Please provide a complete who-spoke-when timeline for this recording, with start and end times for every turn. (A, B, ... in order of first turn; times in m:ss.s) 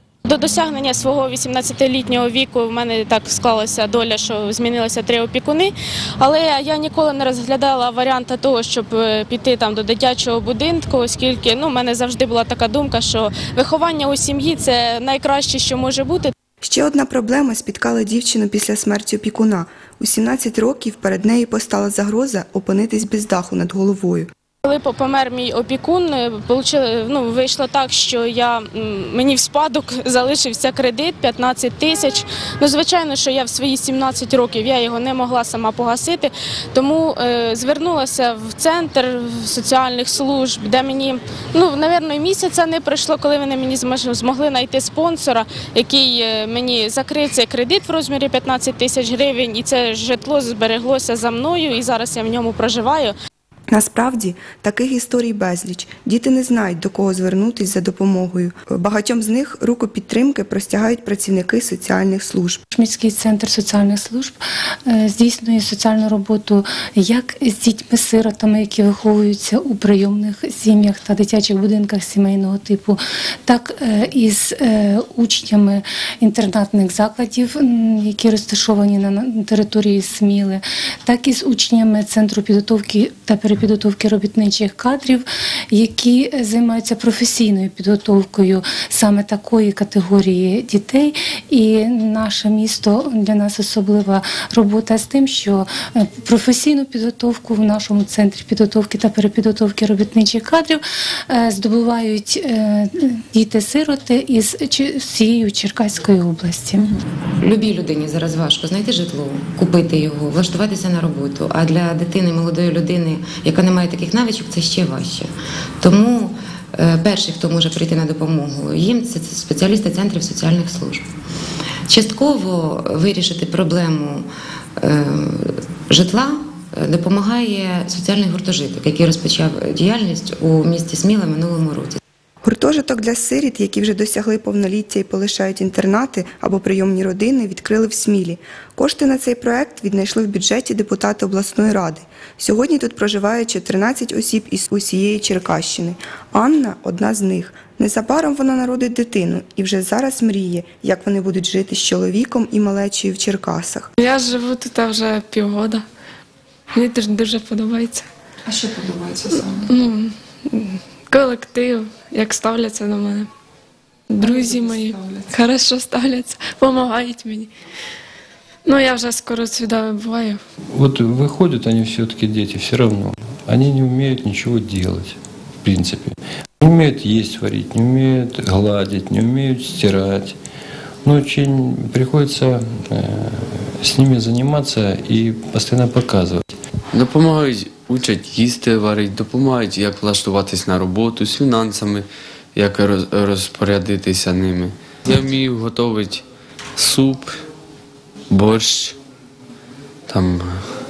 0:00.2-0:16.3 A
0:16.6-0:24.3 B
0:24.6-0:53.1 A
0:53.7-1:02.6 B
1:02.7-1:46.9 C
1:47.4-1:55.3 D
1:55.8-2:01.0 D
2:01.9-2:04.3 D
2:04.8-2:12.0 D
2:12.4-2:33.9 B
2:34.0-2:35.8 E
2:36.7-2:38.1 E
2:38.5-2:39.7 F
2:39.3-2:43.3 E
2:44.1-2:47.5 E
2:44.2-2:45.3 F
2:48.6-2:50.4 E
2:50.7-3:00.4 G
3:01.0-3:06.5 G
3:06.9-3:12.0 H
3:12.6-3:16.2 H
3:16.8-3:17.2 H
3:18.3-3:19.0 H
3:20.1-3:20.4 H